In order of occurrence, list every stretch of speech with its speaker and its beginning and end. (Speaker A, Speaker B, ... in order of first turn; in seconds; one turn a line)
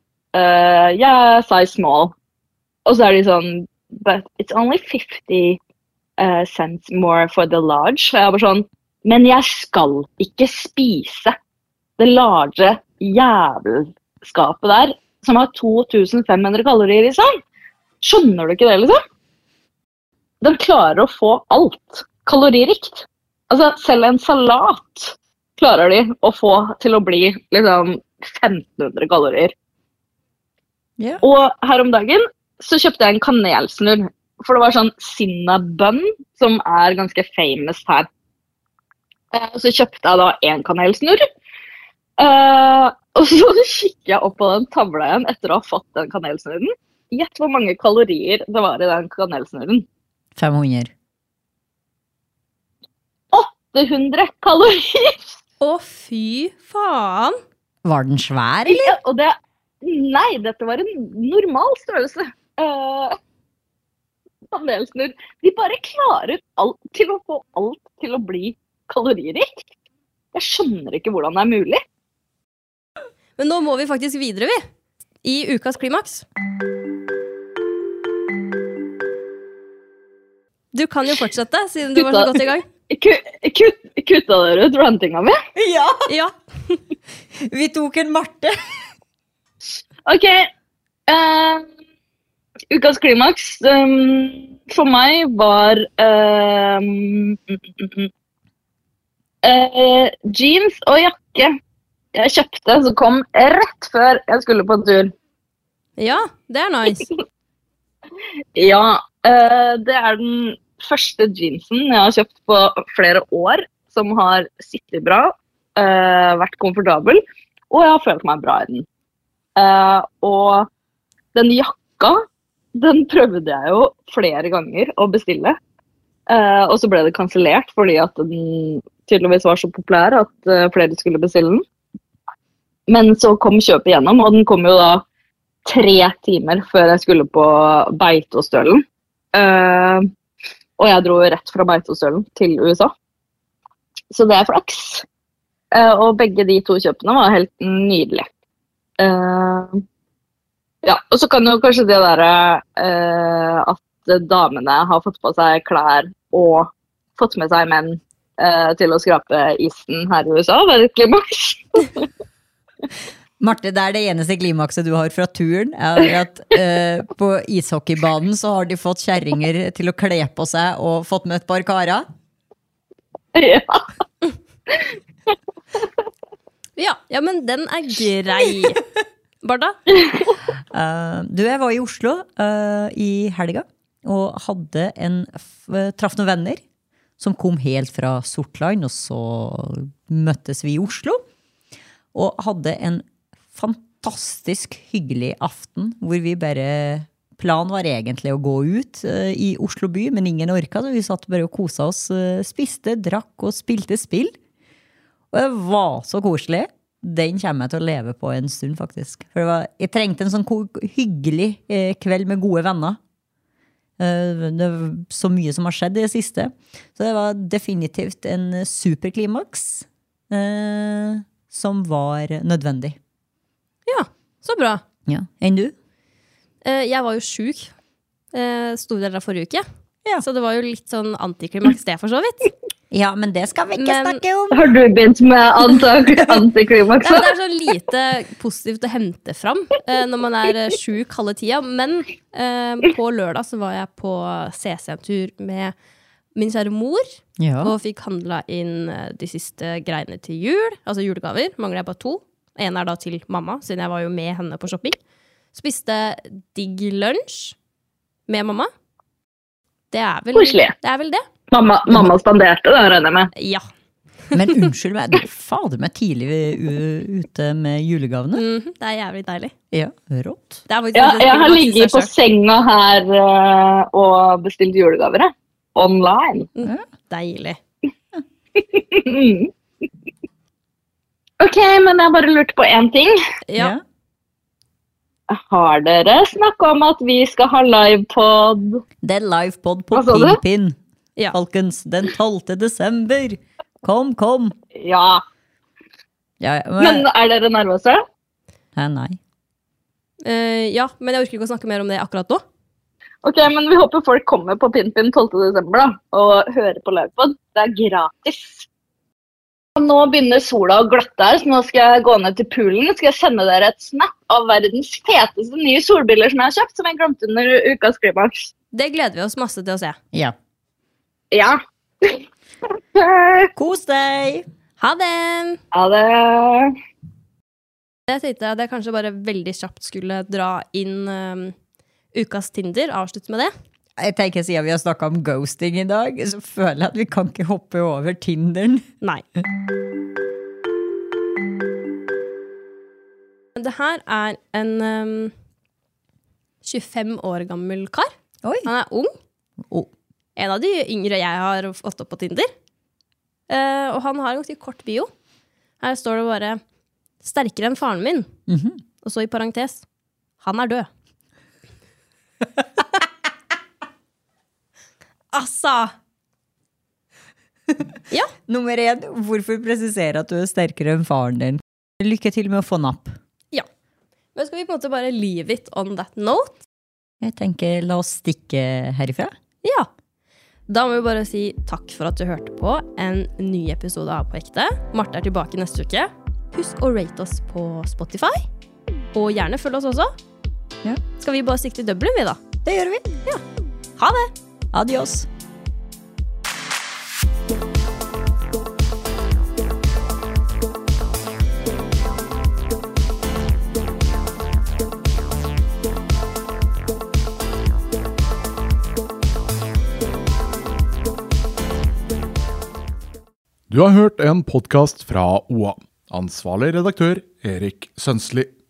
Speaker A: 0.3-2.1
Speaker A: 2.9-5.6
Speaker A: 6.2-11.3
Speaker A: 12.0-17.4
Speaker A: 18.0-19.0
Speaker A: 20.4-29.5
Speaker A: 31.2-38.1
Speaker A: 39.3-41.2
Speaker A: 42.2-49.9
Speaker B: 50.4-50.9
Speaker A: 53.3-55.3
Speaker C: 55.6-57.4
Speaker B: 57.8-59.0
Speaker A: 58.7-63.2
Speaker A: 64.5-69.6
Speaker A: 70.3-71.8
Speaker C: 73.4-74.6
Speaker C: 75.2-76.2
Speaker C: 80.7-82.7
Speaker A: 82.0-82.4
Speaker A: 82.9-85.4
Speaker B: 85.6-86.1
Speaker C: 86.1-86.8
Speaker B: 87.3-88.9
Speaker A: 90.1-90.5
Speaker A: 91.1-91.7
Speaker A: 92.7-98.1
Speaker A: 99.4-101.5
Speaker A: 102.2-105.1
Speaker C: 106.0-107.1
Speaker A: 108.6-118.8
Speaker A: 119.6-120.7
Speaker A: 121.3-122.2
Speaker A: 122.8-125.6
Speaker A: 126.3-131.6
Speaker A: 132.9-135.0
Speaker A: 135.7-138.8
Speaker A: 139.3-140.1
Speaker A: 140.8-142.9
Speaker A: 144.1-145.1
Speaker A: 145.7-148.3
Speaker A: 149.0-149.8
Speaker A: 150.8-162.1
Speaker B: 163.4-172.1
Speaker A: 173.3-173.9
Speaker C: 176.8-178.8
Speaker C: 179.4-179.8
Speaker B: 180.7-186.6
Speaker B: 187.2-191.2
Speaker B: 192.1-204.4
Speaker B: 205.3-213.0
Speaker B: 214.0-223.0
Speaker C: 223.9-224.8
Speaker B: 225.1-225.8
Speaker C: 226.7-227.7
Speaker C: 228.3-229.6
Speaker C: 230.2-232.5
Speaker B: 232.9-234.6
Speaker C: 233.8-234.2
Speaker A: 234.5-237.3
Speaker C: 237.0-245.7
Speaker C: 246.3-247.1
Speaker B: 247.4-247.7
Speaker C: 247.6-255.0
Speaker C: 255.5-257.6
Speaker C: 258.3-258.7
Speaker C: 259.9-261.2
Speaker A: 260.4-260.8
Speaker A: 261.5-263.3
Speaker C: 263.4-263.6
Speaker B: 264.3-268.4
Speaker C: 268.4-269.5
Speaker B: 269.7-270.6
Speaker C: 270.7-272.1
Speaker A: 270.9-276.5
Speaker C: 276.6-277.6
Speaker A: 278.6-279.5
Speaker A: 281.4-283.2
Speaker C: 283.5-283.8
Speaker B: 283.6-283.8
Speaker A: 285.3-288.8
Speaker B: 289.0-290.8
Speaker A: 289.9-290.4
Speaker B: 291.3-294.6
Speaker A: 294.8-295.2
Speaker B: 296.4-297.1
Speaker A: 296.8-298.0
Speaker B: 298.8-299.2
Speaker C: 300.2-302.4
Speaker A: 303.2-308.7
Speaker A: 309.8-318.5
Speaker C: 318.7-320.0
Speaker A: 321.3-323.5
Speaker B: 323.6-324.5
Speaker C: 324.8-325.6
Speaker A: 325.7-326.8
Speaker C: 328.1-331.6
Speaker C: 332.1-333.5
Speaker B: 334.0-338.9
Speaker C: 343.6-345.3
Speaker C: 346.6-348.1
Speaker B: 348.4-348.7
Speaker C: 348.6-349.1
Speaker C: 350.4-352.5
Speaker C: 353.5-355.1
Speaker C: 355.8-356.6
Speaker C: 357.2-358.3
Speaker B: 358.5-358.8
Speaker C: 359.0-359.9
Speaker C: 360.4-360.9
Speaker C: 365.3-365.9
Speaker B: 368.5-373.2
Speaker C: 374.4-376.6
Speaker B: 377.2-379.3
Speaker C: 380.7-388.4
Speaker C: 389.1-390.1
Speaker C: 391.2-392.4
Speaker B: 392.6-393.2
Speaker C: 394.0-394.3
Speaker B: 394.7-395.3
Speaker D: 413.7-418.5